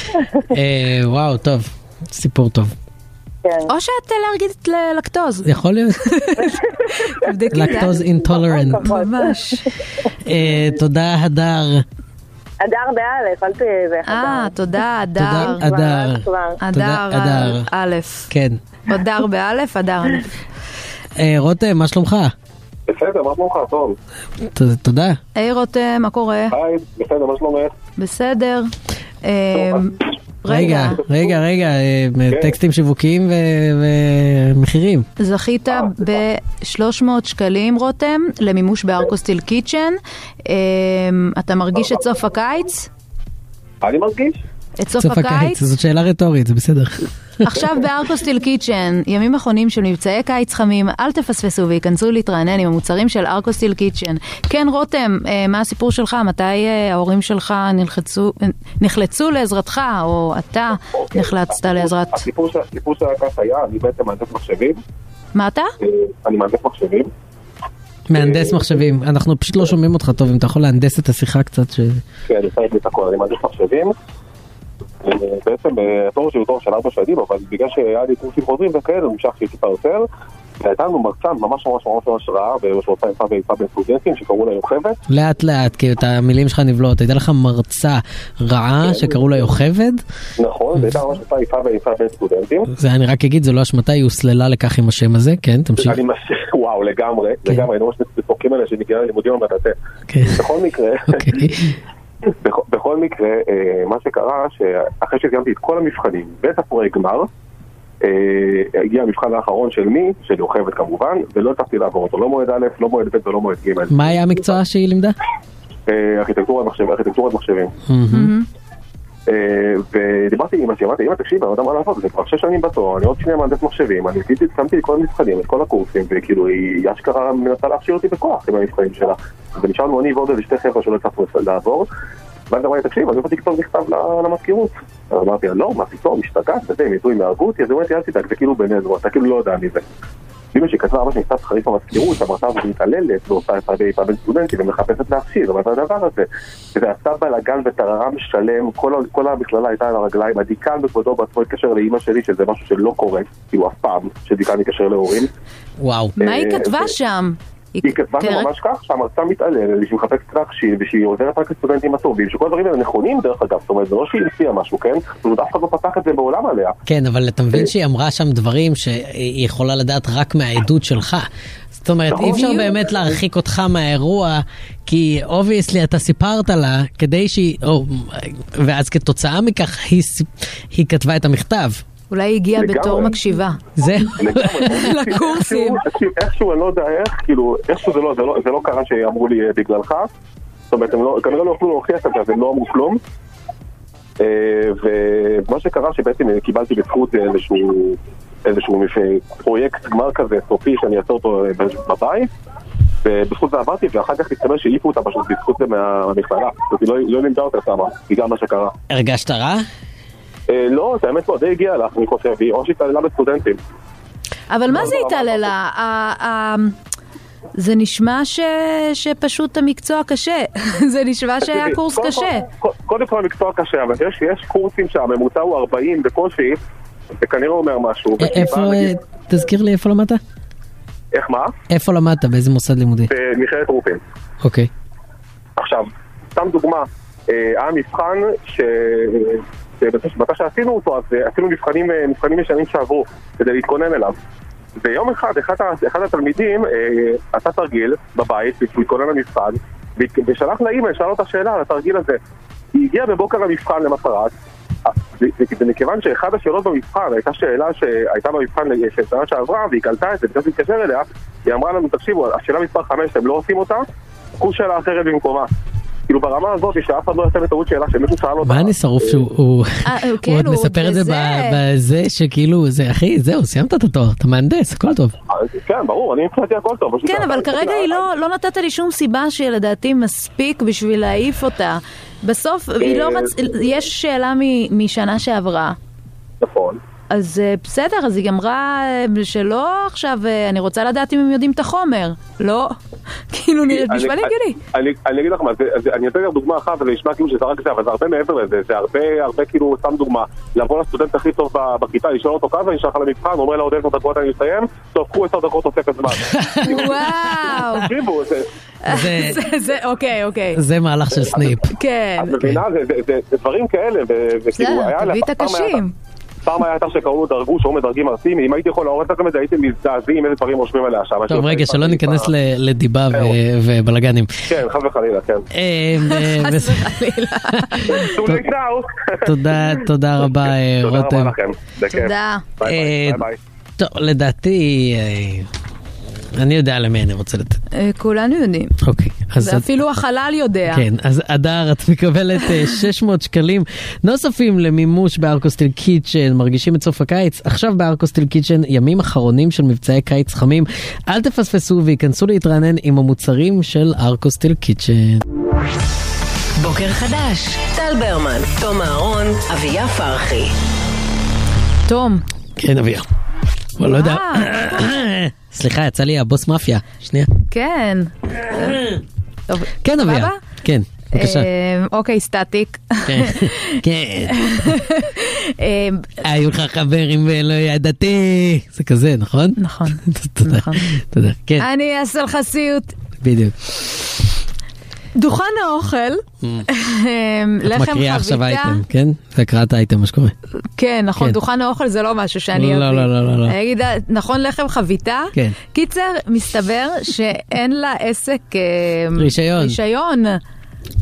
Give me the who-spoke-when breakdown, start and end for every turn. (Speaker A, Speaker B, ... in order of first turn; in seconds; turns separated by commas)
Speaker A: 0.5-2.7, Speaker B: 3.4-3.7, Speaker C: 3.7-5.5, Speaker A: 5.4-6.0, Speaker C: 6.0-8.0, Speaker B: 6.4-9.6, Speaker A: 7.5-8.9, Speaker C: 8.8-9.7, Speaker A: 10.2-11.8, Speaker B: 12.6-14.6, Speaker C: 14.0-15.7, Speaker A: 15.2-17.7, Speaker B: 15.4-16.6, Speaker C: 16.6-18.3, Speaker A: 18.3-18.6, Speaker C: 18.9-20.3, Speaker A: 21.2-22.3, Speaker D: 22.9-24.0, Speaker A: 24.4-25.2, Speaker C: 25.4-26.6, Speaker D: 26.5-27.7, Speaker C: 28.0-28.7, Speaker C: 29.2-31.0, Speaker D: 29.5-29.8, Speaker A: 30.5-35.1, Speaker D: 30.7-31.4, Speaker C: 35.2-42.9, Speaker D: 43.8-44.4, Speaker C: 44.8-45.6, Speaker A: 45.0-47.5, Speaker C: 47.4-62.2, Speaker D: 61.6-64.8, Speaker C: 65.3-65.7, Speaker D: 65.8-67.1, Speaker A: 68.1-72.0, Speaker D: 68.1-68.8, Speaker D: 72.3-73.9, Speaker D: 75.0-80.0, Speaker D: 80.6-85.0, Speaker A: 85.1-90.0, Speaker D: 88.8-89.5, Speaker D: 90.4-92.7, Speaker A: 92.7-96.0, Speaker D: 95.8-99.7, Speaker A: 100.1-100.4, Speaker D: 100.3-101.4, Speaker A: 101.1-101.8, Speaker D: 102.4-107.3, Speaker D: 108.0-114.5, Speaker A: 113.9-115.2, Speaker D: 115.9-117.7, Speaker A: 117.9-118.3, Speaker C: 118.1-118.5, Speaker D: 119.3-131.9, Speaker D: 132.5-139.8, Speaker D: 140.5-155.3, Speaker A: 155.8-156.2, Speaker C: 156.2-158.5, Speaker D: 156.2-156.9, Speaker D: 157.8-166.8, Speaker A: 166.9-171.3, Speaker A: 171.8-181.8, Speaker D: 172.1-172.9, Speaker C: 172.1-172.7, Speaker C: 182.1-183.6, Speaker D: 182.6-183.2, Speaker A: 183.8-185.0, Speaker D: 184.1-190.1, Speaker C: 184.7-185.8, Speaker D: 190.7-193.0, Speaker D: 194.2-202.3, Speaker D: 203.0-208.7, Speaker A: 208.9-209.7, Speaker D: 210.5-213.6, Speaker C: 214.5-216.8, Speaker D: 214.7-215.5, Speaker C: 217.6-222.4, Speaker D: 221.4-226.6, Speaker D: 227.2-228.9, Speaker A: 228.2-230.2, Speaker D: 231.1-231.5, Speaker A: 231.7-233.1, Speaker D: 233.1-234.0, Speaker A: 234.4-234.7, Speaker D: 235.6-244.2, Speaker D: 244.8-252.2, Speaker D: 252.7-254.3, Speaker D: 254.9-263.8, Speaker D: 264.4-265.5, Speaker D: 266.1-269.2, Speaker A: 268.4-275.1, Speaker C: 269.8-271.6, Speaker D: 275.3-278.0, Speaker C: 277.0-285.8, Speaker D: 282.8-283.3, Speaker D: 286.4-286.8, Speaker C: 287.1-292.8, Speaker C: 293.3-294.6, Speaker D: 293.7-306.9, Speaker A: 306.1-307.8, Speaker C: 306.6-307.9, Speaker D: 307.7-308.5, Speaker C: 308.8-310.6, Speaker A: 308.9-309.4, Speaker A: 310.5-311.7, Speaker D: 311.2-311.6, Speaker C: 311.6-312.4, Speaker D: 312.2-315.8, Speaker C: 314.5-315.9, Speaker D: 316.4-322.3, Speaker A: 321.3-324.4, Speaker D: 324.5-325.5, Speaker A: 325.5-328.4, Speaker C: 326.0-328.1, Speaker D: 327.9-333.4, Speaker A: 329.2-331.3, Speaker C: 331.9-332.4, Speaker A: 332.6-333.2, Speaker A: 333.8-335.5, Speaker A: 336.4-337.6, Speaker C: 337.7-338.8, Speaker A: 338.8-339.7, Speaker C: 339.4-340.8, Speaker A: 340.7-355.2, Speaker E: 356.6-360.5, Speaker C: 361.9-362.2, Speaker A: 362.6-363.1, Speaker A: 363.8-367.3, Speaker C: 363.8-364.9, Speaker C: 367.4-368.9, Speaker A: 368.6-368.9, Speaker C: 369.5-370.4, Speaker A: 369.8-371.5, Speaker C: 371.1-376.2, Speaker A: 373.1-374.8, Speaker A: 376.2-381.7, Speaker C: 379.6-380.9, Speaker C: 381.6-382.9, Speaker A: 383.2-383.5, Speaker C: 385.1-388.8, Speaker A: 387.6-390.3, Speaker C: 390.8-400.4, Speaker A: 392.5-393.6, Speaker A: 399.2-399.8